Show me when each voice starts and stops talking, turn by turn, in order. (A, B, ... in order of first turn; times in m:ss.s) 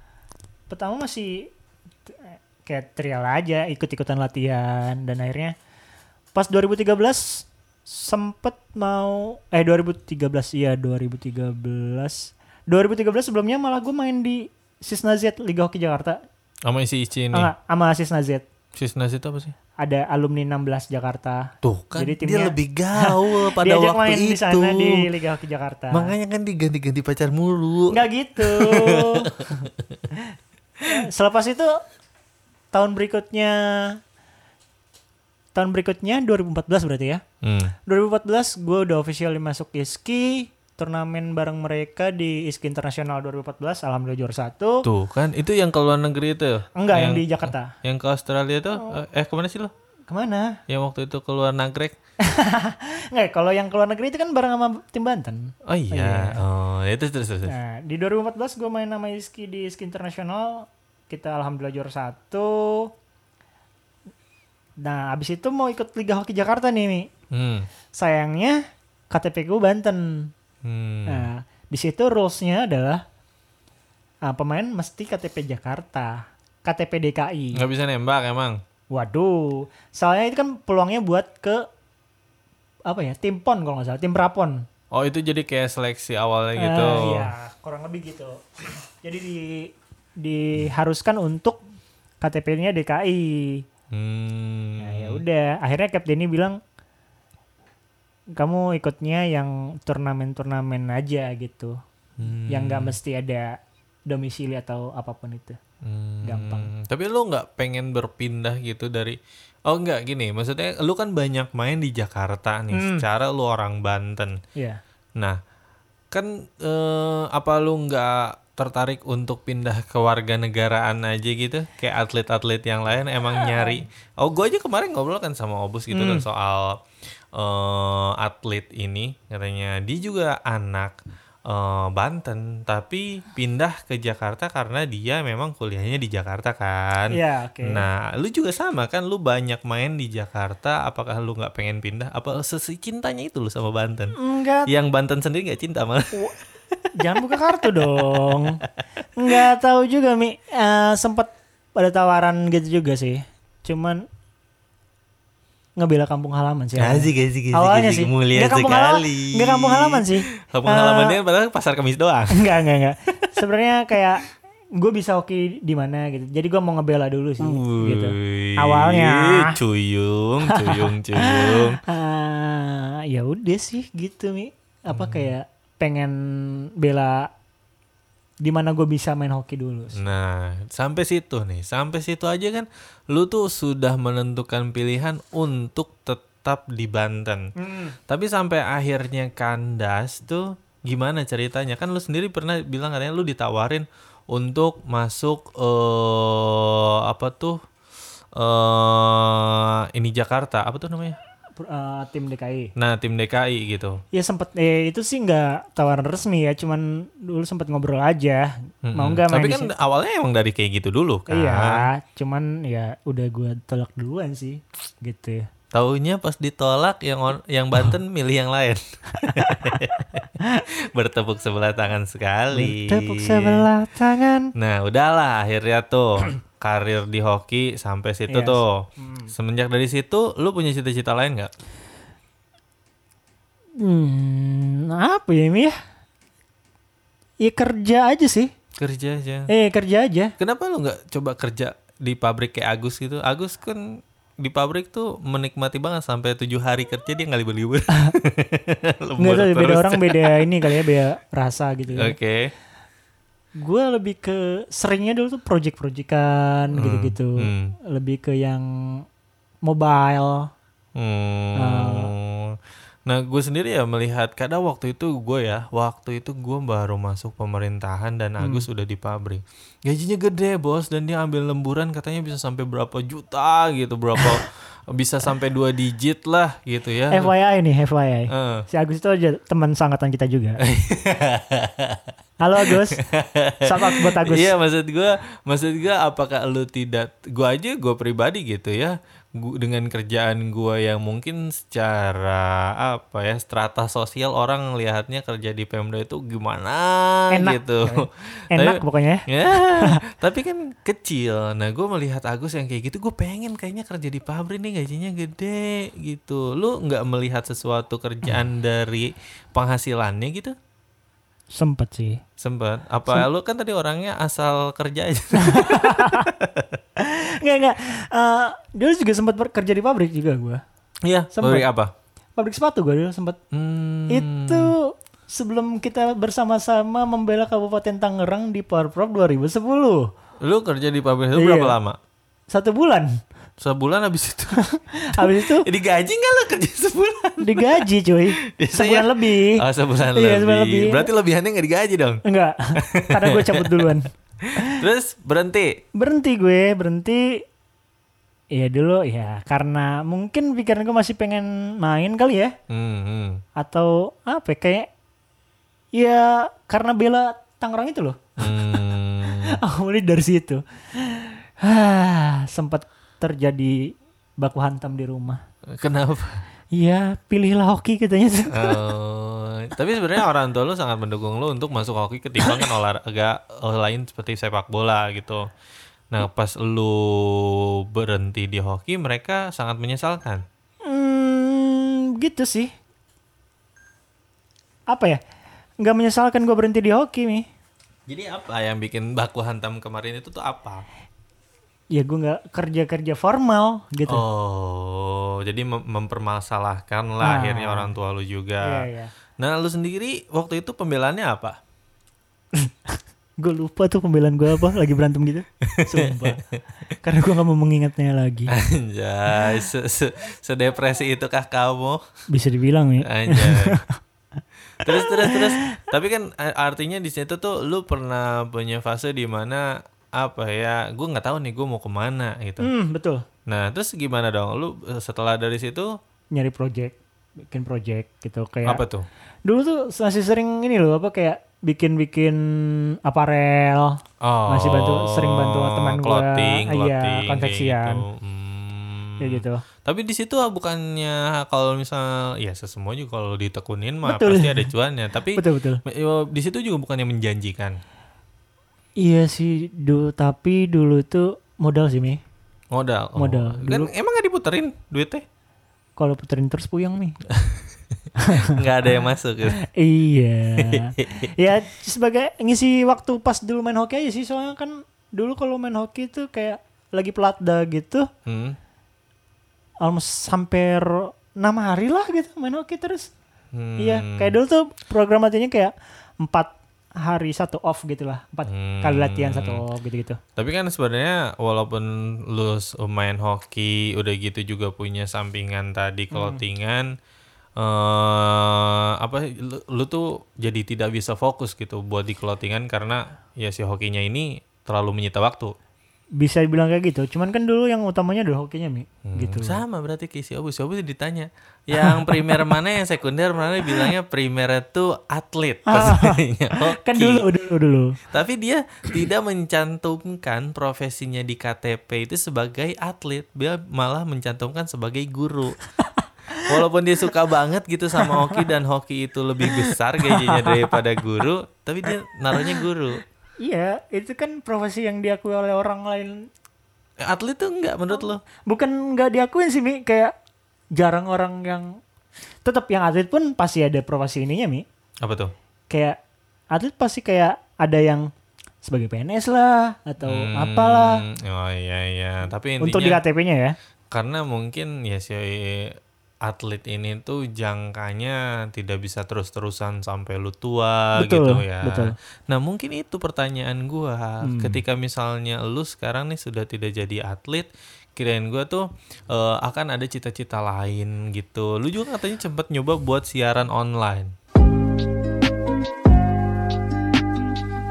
0:00.7-0:01.5 A
0:02.1-0:05.5 A
0:06.3-0:16.2 A
0:16.6-0:17.5 B
0:17.3-0:18.4 A
0:18.8-0:19.5 B
0:19.8-0:26.1 A
0:21.6-0:25.1 B
0:25.9-0:30.0 B
0:27.9-0:30.2 A
0:30.8-0:31.7 A
0:32.7-0:34.0 A
0:35.5-0:37.2 A
0:37.4-0:37.8 B
0:37.8-0:44.8 A
0:44.8-0:49.7 B
0:46.8-0:47.7 A
0:50.1-0:50.6 A
0:50.7-0:52.0 B
0:52.2-0:56.4 A
0:55.6-0:57.5 B
0:57.4-1:02.9 A
1:04.8-1:07.1 A
1:07.3-1:07.7 B
1:08.0-1:10.3 A
1:10.6-1:11.3 B
1:11.1-1:13.0 A
1:14.2-1:17.6 A
1:17.6-1:18.6 B
1:18.9-1:21.6 A
1:22.9-1:24.6 A
1:24.9-1:27.3 B
1:26.6-1:29.7 A
1:30.2-1:31.6 A
1:32.2-1:33.6 A
1:33.9-1:35.2 B
1:34.8-1:36.6 A
1:38.4-1:41.8 A
1:42.2-1:43.0 B
1:42.5-1:43.5 A
1:44.1-1:45.6 A
1:45.8-1:54.4 B
1:46.2-1:46.7 A
1:52.7-1:53.0 A
1:56.1-2:06.8 B
2:03.4-2:03.8 A
2:05.9-2:06.2 A
2:07.4-2:11.0 B
2:11.5-2:24.1 B
2:17.1-2:17.9 A
2:24.2-2:24.7 A
2:24.6-2:28.7 B
2:27.0-2:28.6 A
2:29.2-2:34.0 A
2:35.8-2:41.2 A
2:36.8-2:42.4 B
2:42.3-2:49.6 A
2:47.4-2:51.8 B
2:50.5-2:57.3 A
2:54.9-2:55.3 B
2:58.4-3:00.0 A
2:59.9-3:07.5 B
3:07.6-3:07.9 A
3:08.1-3:17.6 B
3:18.4-3:21.2 B
3:21.6-3:22.7 A
3:22.8-3:24.0 B
3:24.1-3:29.7 A
3:28.8-3:31.8 B
3:31.3-3:35.4 A
3:35.7-3:43.6 B
3:39.2-3:39.8 A
3:40.4-3:40.6 A
3:42.5-3:44.5 A
3:44.6-3:51.5 B
3:48.3-3:49.3 A
3:53.8-3:55.8 A
3:57.4-3:58.5 A
3:58.8-3:59.5 B
3:59.5-4:00.3 A
4:00.4-4:03.9 B
4:04.4-4:10.7 B
4:09.2-4:12.2 A
4:11.9-4:12.5 B
4:13.6-4:19.0 A
4:16.8-4:17.8 B
4:19.6-4:20.5 A
4:21.0-4:22.6 B
4:21.6-4:22.1 A
4:23.1-4:37.3 B
4:28.4-4:28.6 A
4:37.1-4:40.6 A
4:38.3-4:38.6 B
4:40.6-5:10.6 B
4:42.4-4:43.0 A
4:43.6-4:44.5 A
4:57.3-5:00.0 A
5:11.5-5:12.2 A
5:12.4-5:16.8 B
5:15.3-5:16.3 A
5:17.0-5:20.6 A
5:21.0-5:21.9 B
5:21.3-5:21.6 A
5:22.4-5:23.4 A
5:23.5-5:24.7 B
5:24.1-5:30.1 A
5:30.4-5:32.0 B
5:31.3-5:31.8 A
5:32.5-5:33.2 A
5:33.6-5:34.6 B
5:34.5-5:35.6 A
5:35.1-5:37.8 B
5:37.4-5:39.6 A
5:38.5-5:42.2 B
5:40.1-5:41.1 A
5:42.2-5:44.8 A
5:42.8-5:45.8 B
5:46.0-5:47.4 A
5:48.5-5:52.5 A
5:52.7-5:53.4 B
5:53.6-5:54.9 A
5:55.9-5:58.8 A
5:58.4-5:59.6 B
5:59.3-6:05.4 A
6:05.7-6:06.4 B
6:06.8-6:08.8 A
6:08.5-6:15.4 B
6:12.4-6:12.7 A
6:16.1-6:20.4 B
6:20.8-6:22.7 A
6:24.9-6:25.2 A
6:25.8-6:27.5 A
6:28.1-6:30.8 B
6:31.9-6:34.2 A
6:34.1-6:38.9 B
6:37.2-6:37.9 A
6:38.6-6:39.1 A
6:39.4-6:41.6 B
6:42.5-6:46.4 A
6:45.6-6:46.6 B
6:47.0-6:48.5 A
6:48.5-6:52.0 B
6:52.3-6:54.0 A
6:53.0-6:53.8 B
6:54.8-7:02.7 B
6:54.8-6:55.8 A
7:02.6-7:03.2 A
7:03.5-7:05.9 B
7:06.3-7:08.8 A
7:08.6-7:09.0 B
7:09.5-7:18.0 A
7:14.2-7:27.8 B
7:19.2-7:19.6 A
7:24.0-7:24.7 A
7:25.3-7:25.8 A
7:29.0-7:32.2 A
7:32.7-7:35.2 B
7:33.2-7:33.9 A
7:36.0-7:37.2 A
7:37.3-7:37.7 B
7:38.2-7:39.0 A
7:38.3-7:39.6 B
7:39.5-7:48.1 A
7:40.6-7:41.3 B
7:48.2-7:48.6 B
7:49.8-7:53.1 A
7:53.5-7:54.4 B
7:53.8-8:00.2 A
7:58.5-7:59.6 B
8:00.4-8:06.9 B
8:06.1-8:06.4 A
8:07.6-8:15.5 B
8:16.2-8:19.6 A
8:19.0-8:27.3 B
8:21.7-8:22.5 A
8:25.7-8:28.0 A
8:28.1-8:35.6 B
8:35.8-8:36.6 A
8:36.5-8:43.0 B
8:38.0-8:38.4 A
8:39.4-8:40.8 A
8:42.3-8:42.6 A
8:43.4-8:46.3 A
8:47.0-8:48.2 B
8:48.5-8:50.1 A
8:50.8-8:51.8 A
8:52.4-8:54.6 A
8:55.0-8:55.3 B
8:55.7-8:56.0 A
8:56.5-8:58.1 A
8:58.6-9:01.0 A
9:00.0-9:03.0 B
9:02.6-9:03.5 A
9:03.9-9:24.1 B
9:11.0-9:12.0 A
9:14.2-9:14.6 A